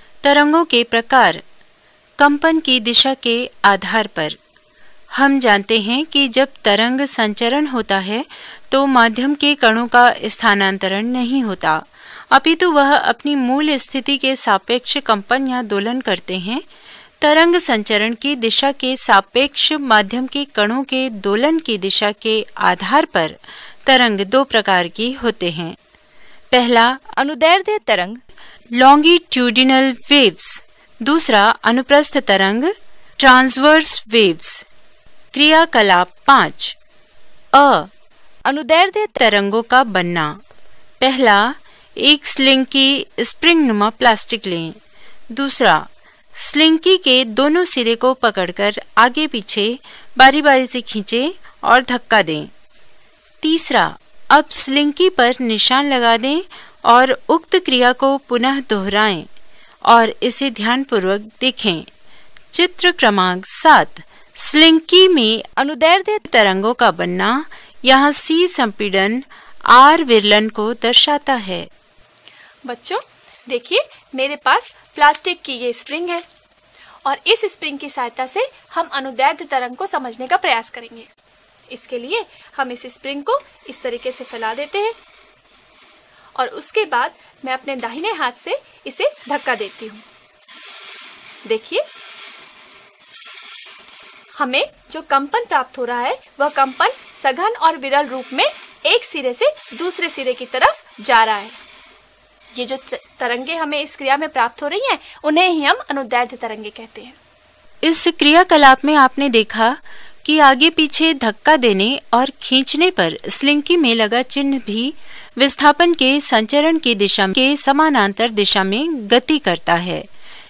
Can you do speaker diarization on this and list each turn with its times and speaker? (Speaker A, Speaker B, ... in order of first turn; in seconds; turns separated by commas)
Speaker A: 0.2-1.4, Speaker A: 2.2-4.4, Speaker A: 5.1-16.6, Speaker A: 17.2-25.8, Speaker A: 26.5-27.1, Speaker B: 27.2-28.2, Speaker A: 28.8-34.6, Speaker A: 35.3-36.8, Speaker A: 37.5-37.9, Speaker B: 38.5-39.2, Speaker A: 39.2-40.4, Speaker A: 41.0-44.8, Speaker A: 45.3-52.5, Speaker A: 53.4-59.3, Speaker A: 59.9-61.9, Speaker A: 62.5-65.5, Speaker B: 65.6-66.2, Speaker A: 66.2-71.7, Speaker C: 72.7-76.2, Speaker C: 77.0-81.1, Speaker C: 81.7-85.0, Speaker C: 86.3-90.0, Speaker C: 91.5-91.8, Speaker C: 94.3-101.6, Speaker C: 102.5-107.2, Speaker A: 107.8-120.0